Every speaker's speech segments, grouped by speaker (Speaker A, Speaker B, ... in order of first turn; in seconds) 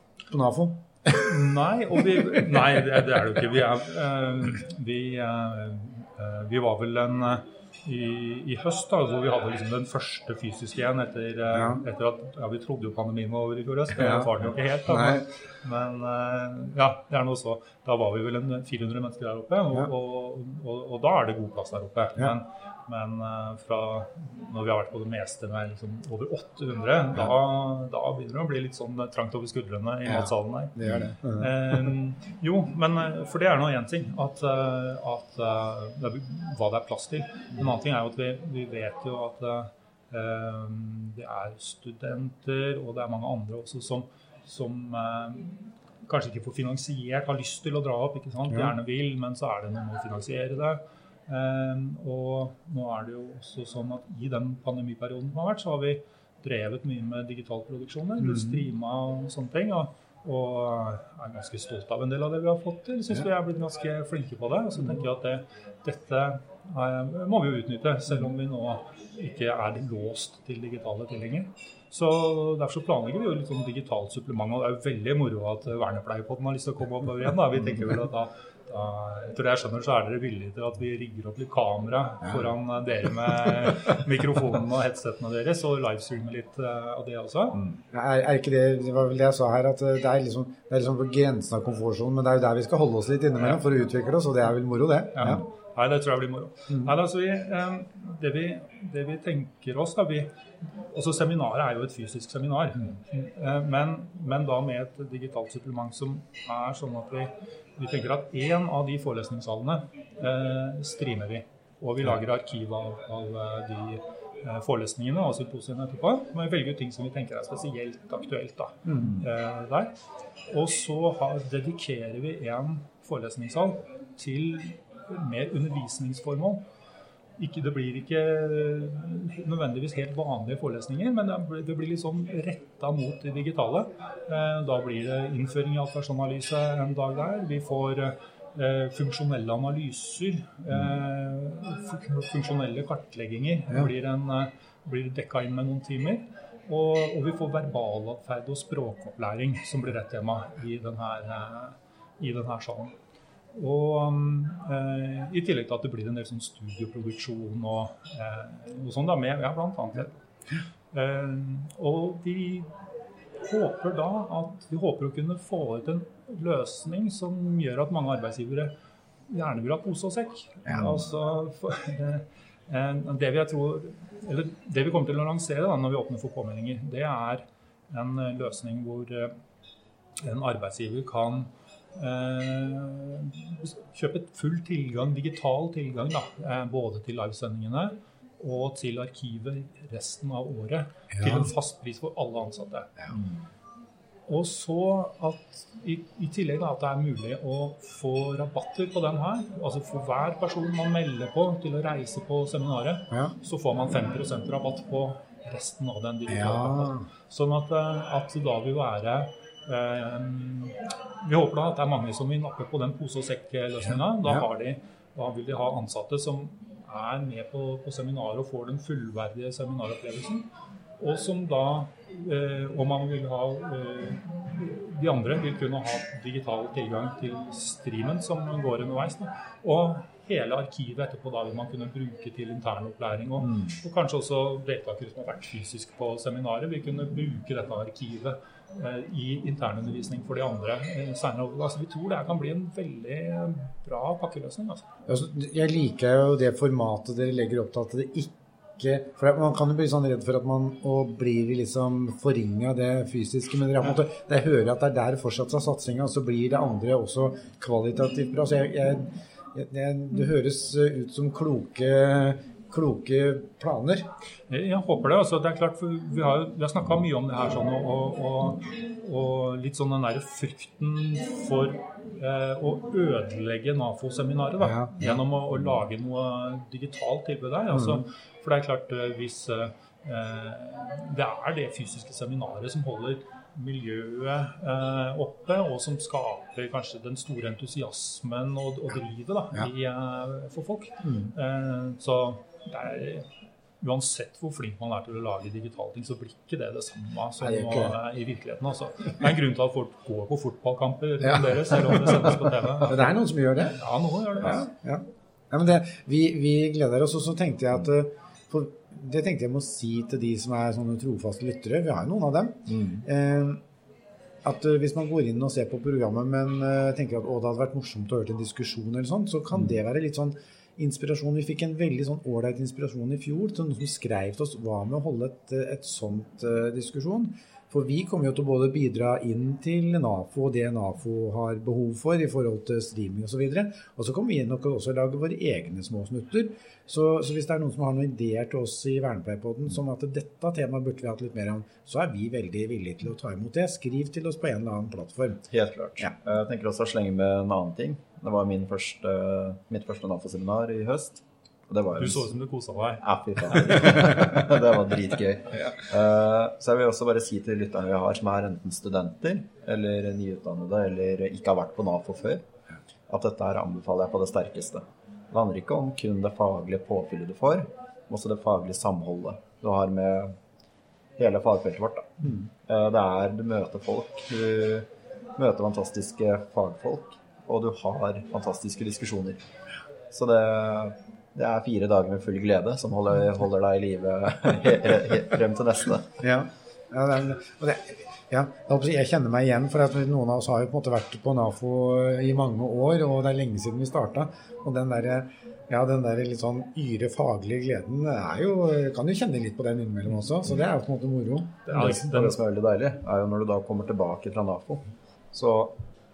Speaker A: 0.3-1.5, 2.2-2.5, 11.5-11.8, 13.9-15.3, 30.1-31.9, 48.5-48.8, 58.2-58.6, 87.9-95.4, 118.9-119.2, 170.7-171.0, 191.1-191.5, 206.3-207.1, 213.9-214.5, 245.1-264.1, 274.6-275.2, 277.7-278.1, 291.0-291.3, 297.4-298.0, 301.2-303.8, 304.4-313.6, 314.4-345.5, 386.2-401.6
Speaker B: 1.2-87.6, 95.1-119.9, 120.5-126.6, 127.4-152.9, 153.5-160.2, 160.9-162.7, 163.4-168.7, 169.3-179.3, 180.2-192.9, 194.3-220.5, 221.0-244.9, 264.5-293.3, 293.8-304.7, 352.0-354.2, 401.7-402.4
Speaker C: 193.1-193.4, 233.5-233.7, 312.7-313.0, 345.5-352.3, 353.0-362.4, 363.1-370.3, 371.2-379.4, 380.1-386.1, 401.7-405.7